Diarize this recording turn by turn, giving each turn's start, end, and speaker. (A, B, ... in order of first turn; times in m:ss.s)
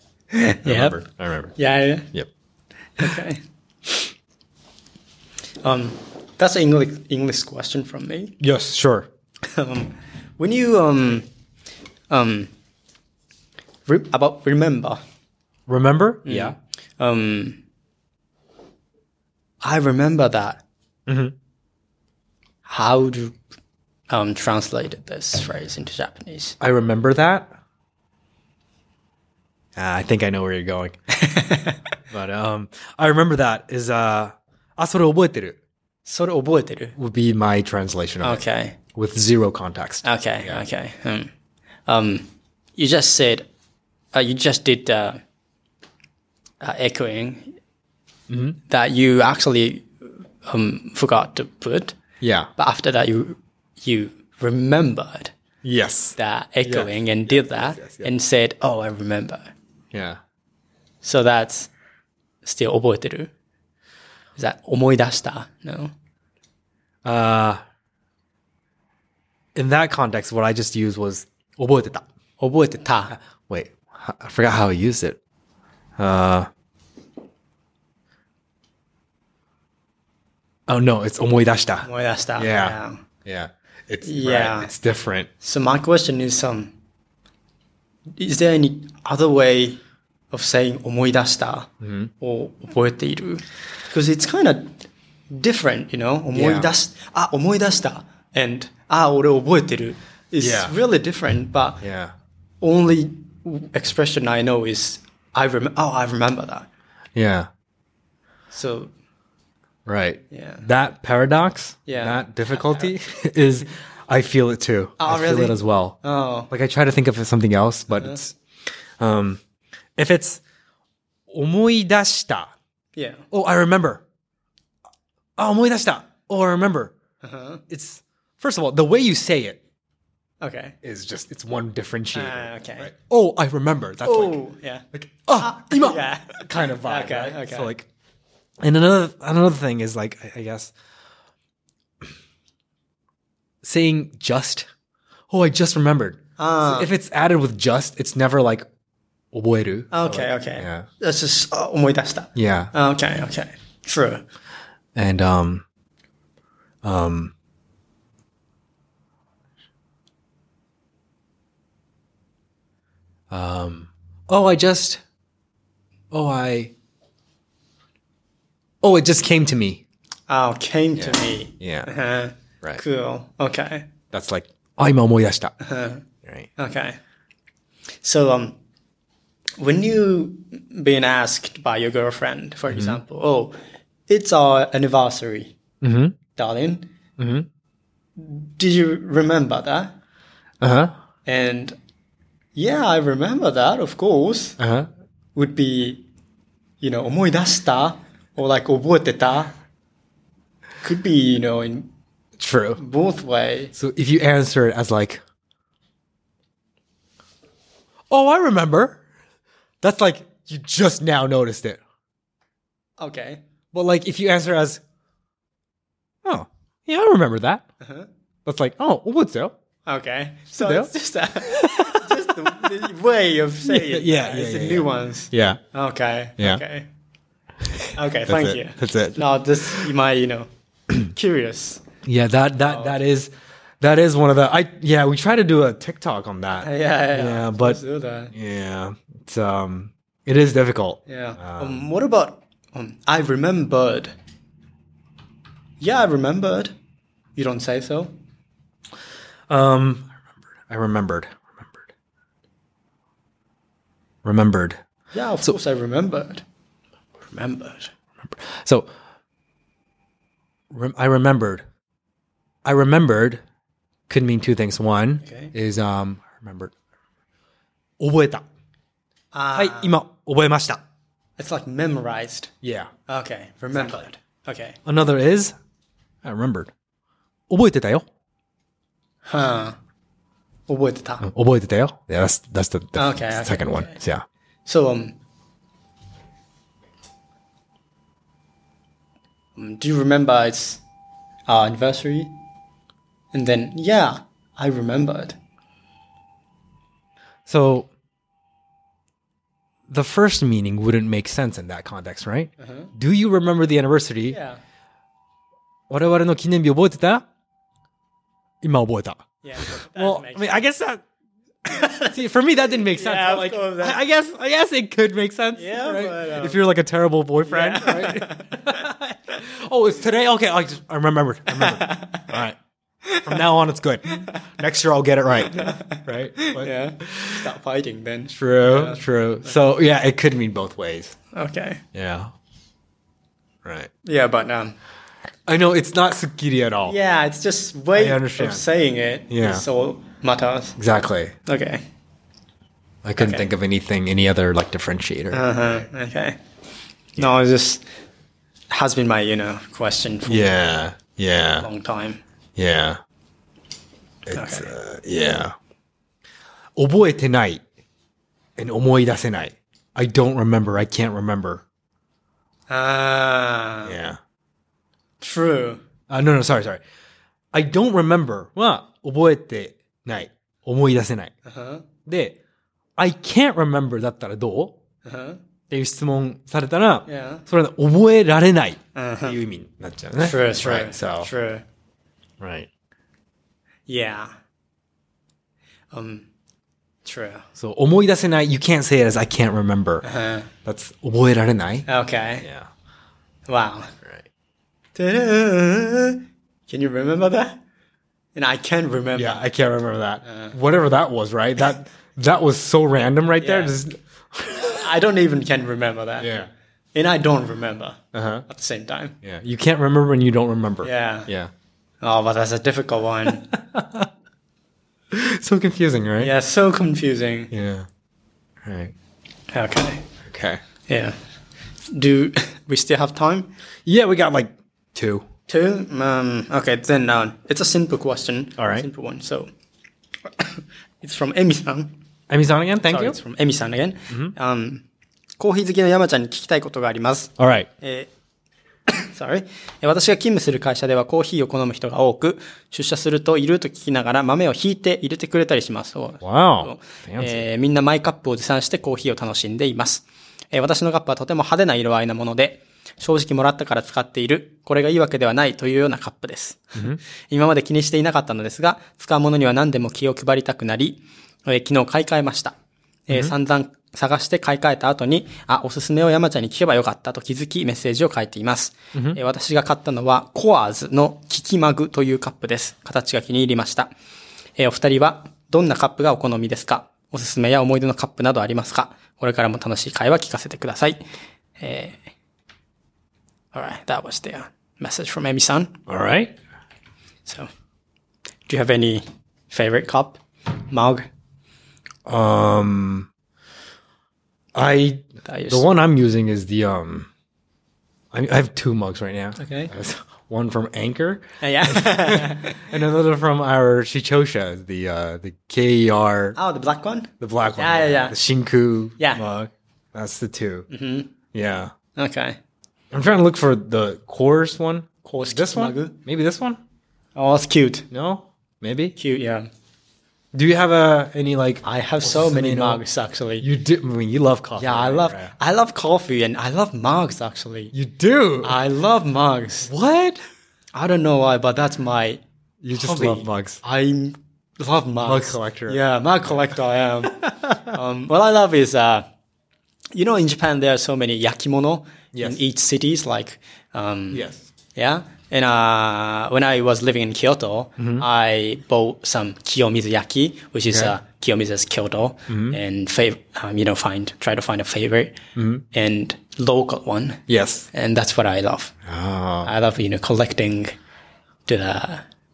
0:00.3-0:01.0 A
0:00.6-0:01.6 B
0:01.6-0:02.1 A
0:03.0-0:03.4 A
0:05.6-0:08.4 A
0:08.4-0:09.1 B
0:09.5-0:11.3 A
0:12.1-0:12.5 A
0:13.9-0:15.0 A
0:15.7-0:16.6 B
0:16.2-0:17.6 A
0:19.6-0:20.6 A
0:21.1-0:21.3 B
0:22.6-0:23.3 A
0:24.1-0:26.6 A
0:26.6-0:27.5 B
0:29.8-0:31.0 B
0:31.2-0:31.8 A
0:32.1-0:35.6 B
0:36.0-0:36.9 A
0:37.0-0:38.4 B
0:38.2-0:38.8 A
0:38.9-0:40.6 B
0:40.0-0:41.3 A
0:41.9-0:43.5 A
0:44.1-0:45.2 A
0:46.6-0:47.5 A
0:48.3-0:48.6 B
0:48.7-0:49.9 A
0:50.4-0:52.0 A
0:52.2-0:52.5 B
0:52.6-0:55.3 A
0:55.6-0:58.1 B
0:56.2-0:59.5 A
0:59.9-1:00.2 B
1:01.0-1:01.7 A
1:02.4-1:03.3 A
1:04.4-1:05.9 A
1:07.0-1:07.6 B
1:09.5-1:12.0 B
1:12.4-1:13.1 A
1:13.1-1:15.2 B
1:16.0-1:16.5 B
1:20.7-1:25.3 B
1:21.8-1:23.0 A
1:24.0-1:24.7 A
1:25.4-1:26.7 A
1:28.2-1:29.8 A
1:30.3-1:31.7 A
1:31.8-1:32.1 B
1:32.2-1:34.8 A
1:35.3-1:41.8 A
1:36.3-1:36.7 B
1:40.4-1:40.7 B
1:41.8-1:42.1 B
1:42.6-1:46.7 A
1:47.2-1:47.5 B
1:48.5-1:48.9 A
1:49.8-1:56.0 B
1:50.3-1:50.6 A
1:51.9-1:52.9 A
1:55.0-1:56.5 A
1:56.5-1:58.4 B
1:57.9-1:58.2 A
1:59.0-1:59.4 B
2:00.0-2:00.4 B
2:01.3-2:02.5 B
2:02.9-2:03.2 A
2:03.3-2:04.0 B
2:05.4-2:06.9 B
2:07.2-2:07.6 A
2:07.7-2:09.6 B
2:10.4-2:10.8 A
2:10.8-2:14.4 B
2:12.1-2:12.9 A
2:14.0-2:17.7 A
2:14.9-2:17.9 B
2:18.6-2:20.7 B
2:23.6-2:24.7 B
2:25.3-2:28.6 B
2:26.4-2:26.9 A
2:29.3-2:30.9 B
2:29.9-2:34.2 A
2:32.3-2:32.7 B
2:34.9-2:35.6 B
2:36.8-2:37.3 B
2:43.3-2:45.0 B
2:46.1-2:46.7 B
2:48.8-2:49.8 B
2:50.3-2:53.9 A
2:51.0-2:51.9 B
2:54.1-2:55.6 B
2:55.6-2:56.0 A
2:56.2-2:56.5 B
2:56.6-2:57.0 A
2:58.0-2:58.6 A
2:59.6-3:03.6 A
3:02.7-3:03.0 B
3:04.1-3:05.5 A
3:05.8-3:06.2 B
3:06.4-3:06.9 A
3:07.2-3:07.5 B
3:08.2-3:10.0 A
3:10.6-3:10.9 B
3:11.2-3:11.8 A
3:12.5-3:14.6 A
3:14.6-3:14.9 B
3:15.3-3:16.0 A
3:16.8-3:19.6 A
3:20.8-3:21.9 A
3:22.4-3:22.8 B
3:22.8-3:23.7 A
3:23.7-3:25.2 B
3:28.1-3:29.0 B
3:29.8-3:31.8 B
3:33.0-3:33.4 A
3:33.7-3:34.8 B
3:36.2-3:37.7 B
3:37.8-3:38.1 A
3:38.4-3:39.5 B
3:39.8-3:46.9 A
3:40.6-3:42.6 B
3:43.6-3:45.6 B
3:46.4-3:46.6 B
3:47.9-3:51.8 A
3:48.2-3:49.9 B
3:52.0-4:01.9 B
3:52.6-3:53.0 A
3:56.6-3:58.3 A
4:01.0-4:04.1 A
4:05.8-4:06.7 A
4:07.3-4:08.1 A
4:09.5-4:11.9 B
4:14.2-4:14.8 B
4:15.1-4:16.4 A
4:17.2-4:17.9 A
4:18.2-4:18.9 B
4:20.7-4:21.6 B
4:22.6-4:23.4 B
4:24.1-4:26.7 B
4:25.2-4:25.5 A
4:28.0-4:28.4 B
4:29.3-4:30.0 A
4:29.5-4:30.8 B
4:31.4-4:32.5 A
4:32.6-4:32.9 B
4:33.1-4:34.8 A
4:34.8-4:35.5 B
4:36.2-4:36.7 B
4:37.5-4:38.0 B
4:39.2-4:39.8 A
4:40.7-4:41.3 A
4:41.2-4:44.2 B
4:42.9-4:44.0 A
4:44.6-4:45.2 A
4:49.6-4:50.8 A
4:51.5-4:52.4 A
4:53.3-4:55.4 A
4:57.4-4:57.9 B
4:59.9-5:04.4 B
5:02.6-5:02.9 A
5:04.3-5:04.6 A
5:05.9-5:07.2 B
5:08.6-5:11.0 B
5:09.4-5:10.6 A
5:11.6-5:12.1 A
5:12.0-5:22.6 B
5:12.7-5:14.0 A
5:15.5-5:16.6 A
5:17.4-5:18.8 A
5:21.5-5:22.2 A
5:23.1-5:23.4 A
5:23.2-5:27.4 B
5:25.4-5:29.5 A
5:28.3-5:31.2 B
5:31.3-5:31.8 A
5:31.9-5:32.3 B
5:33.6-5:33.9 B
5:34.0-5:34.8 A
5:35.5-5:37.0 B
5:36.8-5:40.8 A
5:37.9-5:38.6 B
5:39.3-5:39.6 B
5:40.8-5:41.3 B
5:41.4-5:41.8 A
5:43.0-5:45.8 B
5:43.2-5:43.5 A
5:45.3-5:46.4 A
5:47.2-5:47.8 A
5:48.7-5:50.5 A
5:50.2-5:51.7 B
5:51.6-5:52.2 A
5:52.6-5:53.0 B
5:54.3-5:55.5 B
5:54.3-5:54.7 A
5:56.8-5:57.6 B
5:58.6-6:01.6 B
6:02.7-6:04.0 A
6:03.8-6:04.2 B
6:05.2-6:05.8 A
6:06.1-6:06.8 B
6:07.5-6:11.3 B
6:11.4-6:11.8 A
6:12.0-6:12.4 B
6:13.0-6:14.8 B
6:15.0-6:15.4 A
6:15.7-6:21.3 B
6:17.1-6:17.4 A
6:18.9-6:19.4 A
6:20.2-6:21.6 A
6:22.4-6:22.7 B
6:23.9-6:24.3 A
6:25.9-6:26.3 A
6:27.0-6:27.4 A
6:27.6-6:30.0 B
6:30.0-6:30.5 A
6:30.6-6:31.9 B
6:31.9-6:32.4 A
6:32.4-6:32.7 B
6:33.5-6:33.9 A
6:34.9-6:37.6 A
6:38.3-6:39.4 A
6:39.1-6:44.9 B
6:40.2-6:40.5 A
6:43.4-6:43.7 A
6:44.7-6:46.4 A
6:46.2-6:46.5 B
6:46.9-6:49.2 A
6:48.1-6:48.4 B
6:49.2-6:51.5 B
6:50.8-6:51.3 A
6:52.0-6:53.5 A
6:53.5-6:54.1 B
6:55.1-6:56.3 B
6:56.2-6:57.5 A
6:57.5-6:57.8 B
6:58.6-6:58.9 B
6:59.5-7:00.0 A
7:00.2-7:00.6 B
7:00.9-7:01.2 A
7:01.9-7:03.5 A
7:03.8-7:05.2 B
7:05.5-7:09.5 A
7:08.6-7:08.9 B
7:10.3-7:12.0 A
7:12.3-7:13.2 B
7:12.8-7:14.8 A
7:15.4-7:18.1 A
7:17.4-7:17.7 B
7:18.9-7:42.5 A
7:26.2-7:27.4 B
7:36.8-7:37.0 B
7:43.1-7:53.9 A
7:48.9-7:49.2 B
7:54.6-8:01.0 A
8:01.6-8:02.0 A
8:03.5-8:05.8 A
8:05.9-8:06.3 B
8:08.5-8:11.1 A
8:12.0-8:13.1 B
8:14.5-8:17.1 B
8:15.2-8:15.7 A
8:18.1-8:26.4 B
8:19.4-8:19.7 A
8:21.4-8:22.7 A
8:26.4-8:28.2 A
8:27.2-8:30.7 B
8:29.0-8:29.2 A
8:30.7-8:31.1 A
8:31.3-8:31.7 B
8:32.0-8:32.4 A
8:32.9-8:36.6 B
8:35.0-8:36.0 A
8:37.1-8:37.9 A
8:37.9-8:39.0 B
8:39.0-8:39.5 A
8:40.3-8:42.8 B
8:41.6-8:43.4 A
8:43.4-8:45.3 B
8:44.6-8:47.7 A
8:47.7-8:48.6 B
8:48.4-8:49.7 A
8:49.6-8:50.2 B
8:50.7-8:52.2 A
8:52.6-8:53.6 B
8:52.7-8:59.0 A
8:55.0-8:55.8 B
8:59.9-9:15.2 A
9:02.1-9:02.4 B
9:04.1-9:04.5 B
9:07.8-9:08.0 B
9:10.7-9:10.9 B
9:12.3-9:12.6 B
9:15.3-9:15.6 B
9:15.7-9:18.7 A
9:17.3-9:17.7 B
9:18.8-9:19.5 B
9:19.4-9:20.8 A
9:21.5-9:22.0 A